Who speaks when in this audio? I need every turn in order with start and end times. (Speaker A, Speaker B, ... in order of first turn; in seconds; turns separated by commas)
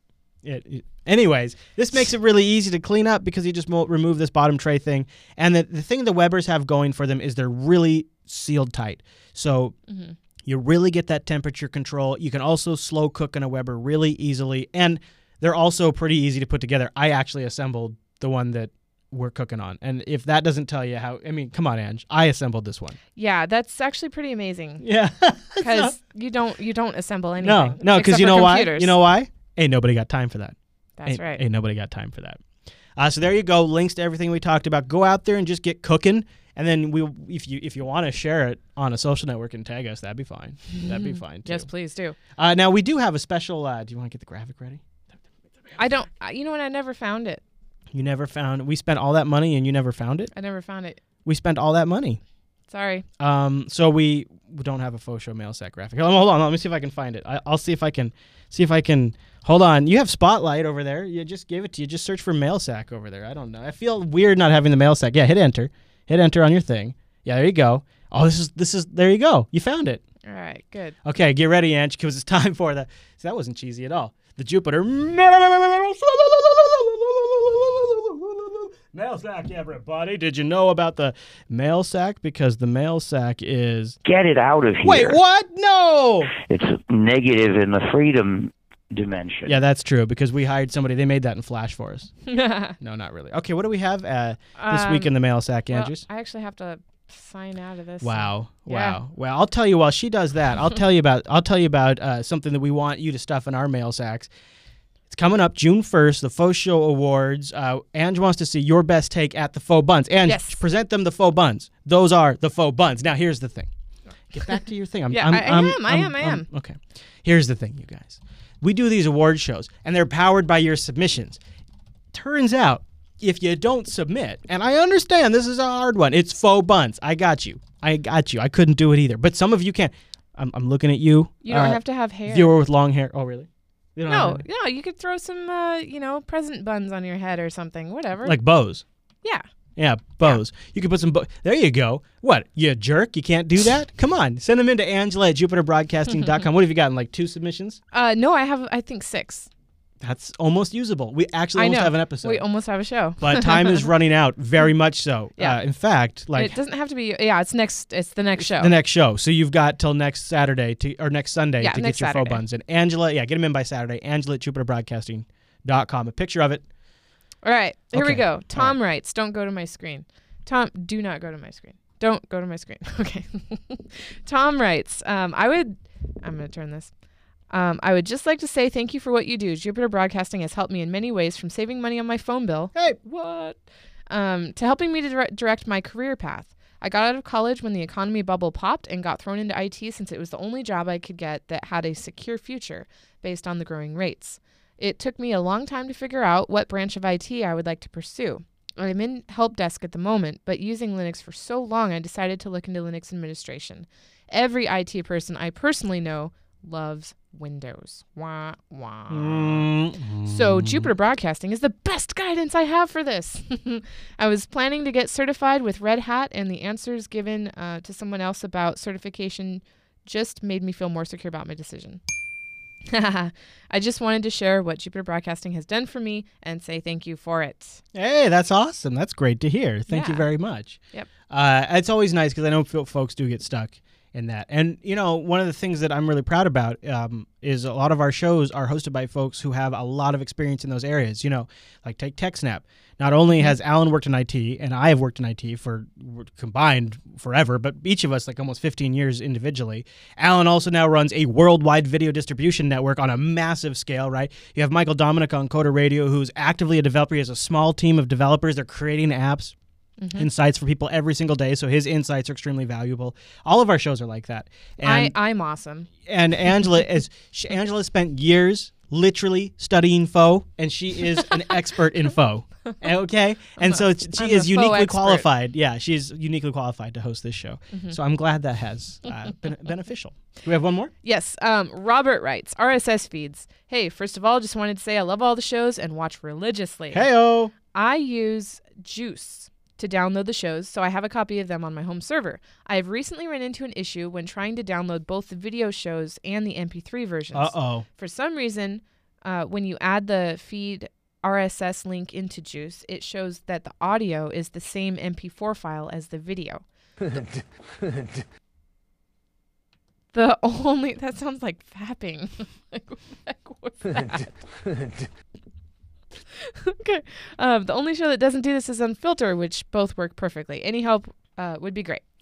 Speaker A: 0.4-9.8, Speaker B: 9.9-10.2, Speaker A: 10.4-23.0, Speaker B: 23.1-24.8, Speaker A: 24.8-25.9, Speaker B: 25.6-28.9, Speaker A: 27.4-32.4, Speaker B: 31.0-31.4, Speaker A: 33.0-41.7, Speaker B: 40.7-42.1, Speaker A: 42.4-45.8, Speaker B: 45.8-47.4, Speaker A: 47.9-50.3, Speaker B: 50.3-51.0, Speaker A: 51.2-52.2, Speaker B: 52.7-53.0, Speaker A: 53.2-70.0, Speaker B: 70.2-71.0, Speaker A: 71.0-84.0, Speaker C: 84.0-85.2, Speaker A: 84.8-86.3, Speaker C: 86.3-89.5, Speaker A: 89.5-92.2, Speaker B: 92.3-92.7, Speaker A: 92.8-96.0, Speaker B: 94.5-95.2, Speaker B: 95.7-99.0, Speaker A: 98.0-104.3, Speaker A: 105.1-113.7, Speaker B: 110.2-110.6, Speaker A: 114.3-121.4, Speaker B: 115.1-116.4, Speaker A: 122.1-134.4, Speaker B: 131.4-132.5, Speaker B: 134.1-138.3, Speaker A: 138.2-138.8, Speaker A: 139.8-147.8, Speaker B: 147.9-149.5, Speaker A: 150.0-152.4, Speaker B: 151.6-153.9, Speaker A: 153.2-156.6, Speaker B: 156.3-158.7, Speaker A: 158.4-166.7, Speaker B: 161.6-162.4, Speaker B: 167.4-176.9, Speaker A: 167.9-168.8, Speaker B: 177.5-209.7, Speaker A: 182.7-183.1, Speaker A: 209.1-210.9, Speaker B: 210.2-222.0, Speaker B: 222.9-227.8, Speaker A: 227.9-259.5, Speaker B: 229.9-230.3, Speaker B: 243.3-243.6, Speaker B: 260.0-260.3, Speaker A: 260.1-265.1, Speaker B: 264.8-265.9, Speaker A: 266.1-280.9, Speaker B: 273.6-275.2, Speaker B: 277.7-278.0, Speaker B: 281.0-287.1, Speaker A: 286.9-287.5, Speaker B: 287.7-307.2, Speaker A: 297.3-297.8, Speaker B: 310.1-314.6, Speaker B: 316.5-322.0